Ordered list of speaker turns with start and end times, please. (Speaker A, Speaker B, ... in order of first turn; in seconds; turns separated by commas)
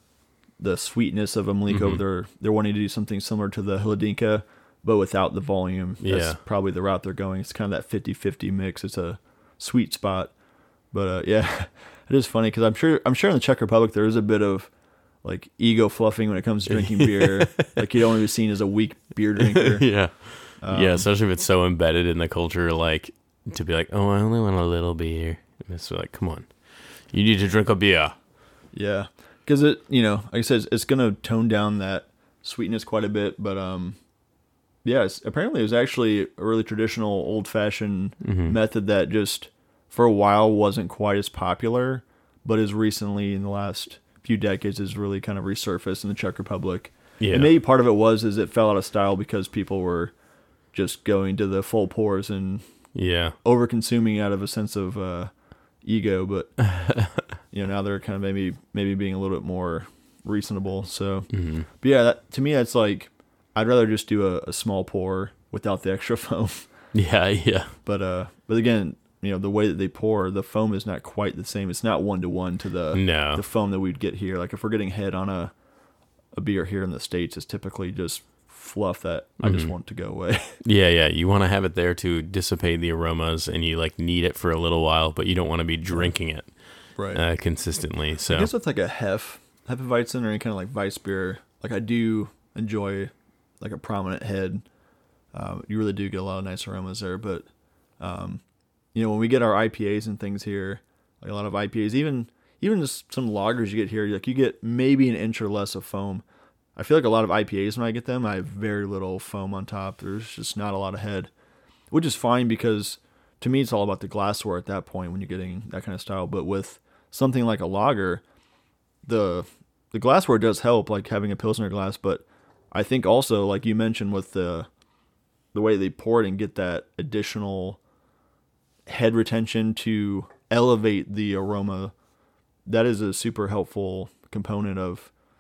Speaker A: 0.6-10.3, Speaker B: 1.7-2.0, Speaker B: 6.0-6.4, Speaker A: 10.9-14.7, Speaker A: 15.2-19.9, Speaker B: 16.7-18.0, Speaker B: 19.5-26.6, Speaker A: 20.6-21.1, Speaker B: 27.1-28.1, Speaker A: 28.7-34.0, Speaker A: 34.8-50.1, Speaker B: 38.2-38.6, Speaker B: 47.2-47.5, Speaker A: 50.7-52.6, Speaker B: 52.9-53.4, Speaker A: 53.4-55.3, Speaker A: 55.8-56.6, Speaker B: 56.6-57.4, Speaker A: 57.5-66.7, Speaker B: 61.3-61.7, Speaker B: 66.9-67.7, Speaker A: 67.8-75.5, Speaker B: 72.9-73.4, Speaker A: 76.3-80.6, Speaker B: 79.4-79.7, Speaker B: 80.6-88.5, Speaker A: 87.0-87.2, Speaker A: 88.3-94.7, Speaker A: 95.3-97.5, Speaker A: 98.0-98.4, Speaker A: 98.9-106.2, Speaker A: 106.8-111.3, Speaker A: 111.9-118.2, Speaker A: 119.0-124.7, Speaker A: 125.5-127.8, Speaker A: 128.9-131.9, Speaker A: 132.7-135.1